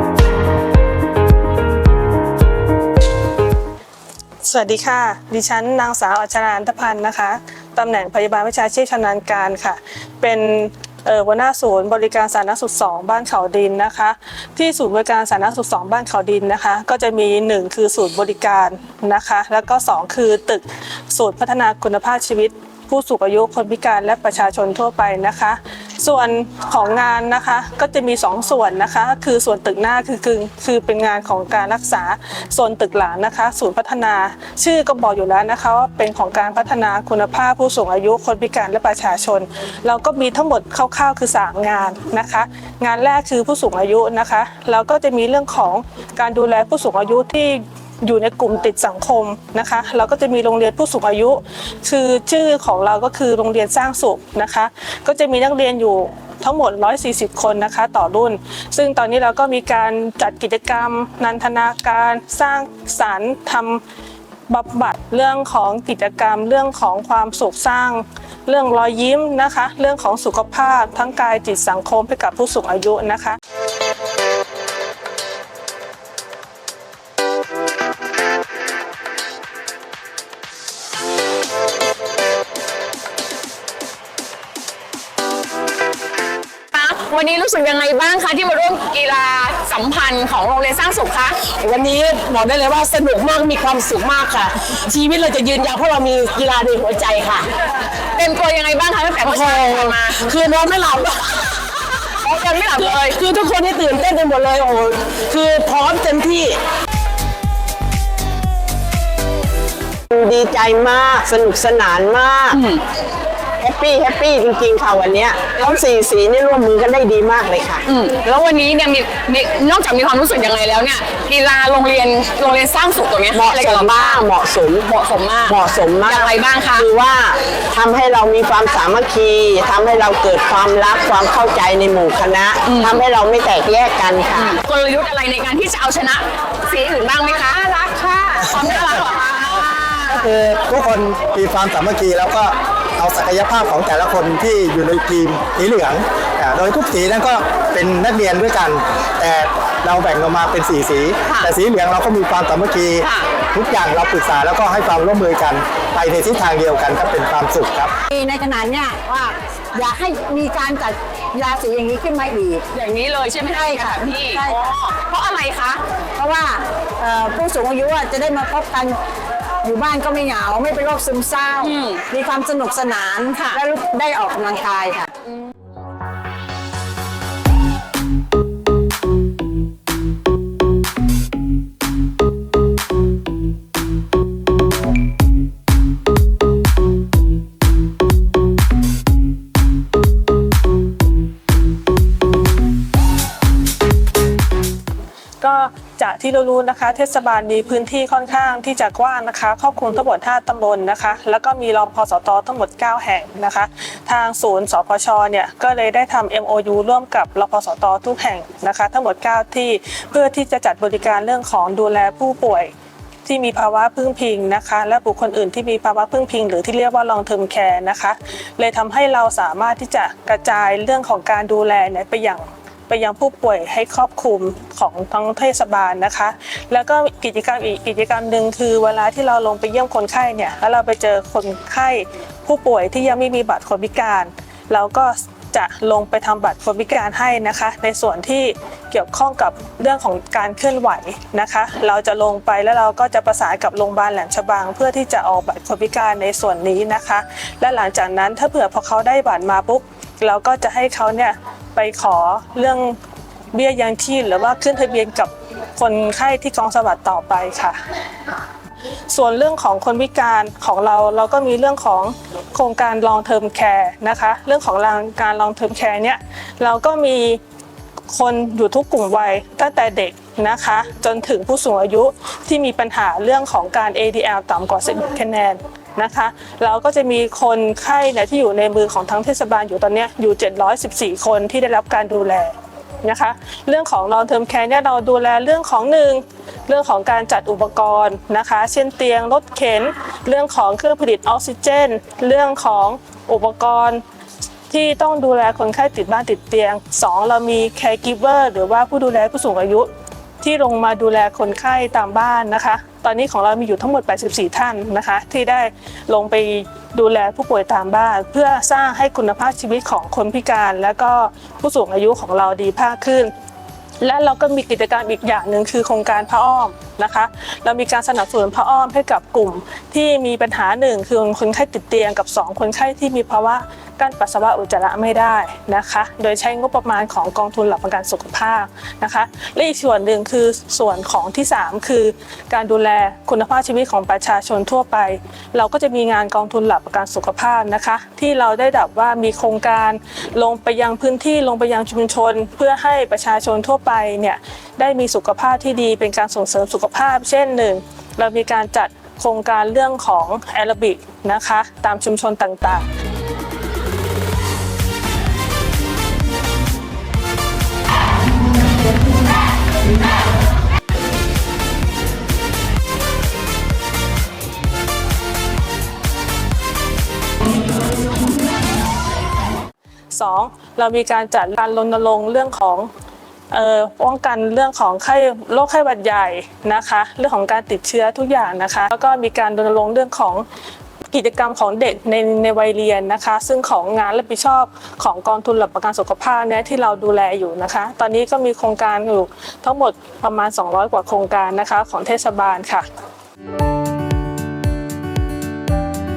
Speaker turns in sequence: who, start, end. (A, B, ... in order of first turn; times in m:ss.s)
0:04.4-1:03.8 A
1:04.5-1:13.4 A
1:26.7-1:31.6 B
1:31.6-1:37.4 C
1:36.8-1:37.4 D
1:38.1-1:41.1 B
1:39.5-1:41.5 C
1:42.2-1:43.2 B
1:42.4-1:46.6 C
1:50.1-1:52.6 D
1:52.5-1:52.8 B
1:53.6-1:57.8 D
1:57.9-2:04.3 B
2:03.3-2:04.8 D
2:04.8-2:06.9 B
2:05.5-2:14.6 D
2:12.6-2:13.0 B
2:14.4-2:20.2 B
2:20.1-2:37.9 E
2:33.0-2:33.3 B
2:38.1-2:42.6 F
2:42.7-2:45.8 B
2:43.6-2:44.5 F
2:46.2-2:49.0 F
2:49.6-2:55.1 F
2:51.6-2:52.0 B
3:15.4-3:32.7 A
3:33.2-4:13.0 A
4:13.5-4:17.8 A
4:19.1-4:27.4 A
4:28.1-4:54.0 A
4:54.7-4:59.9 A
5:00.4-5:13.3 A
5:14.0-5:52.8 A
6:10.1-6:12.9 A
6:13.5-6:20.4 A
6:21.1-6:32.8 A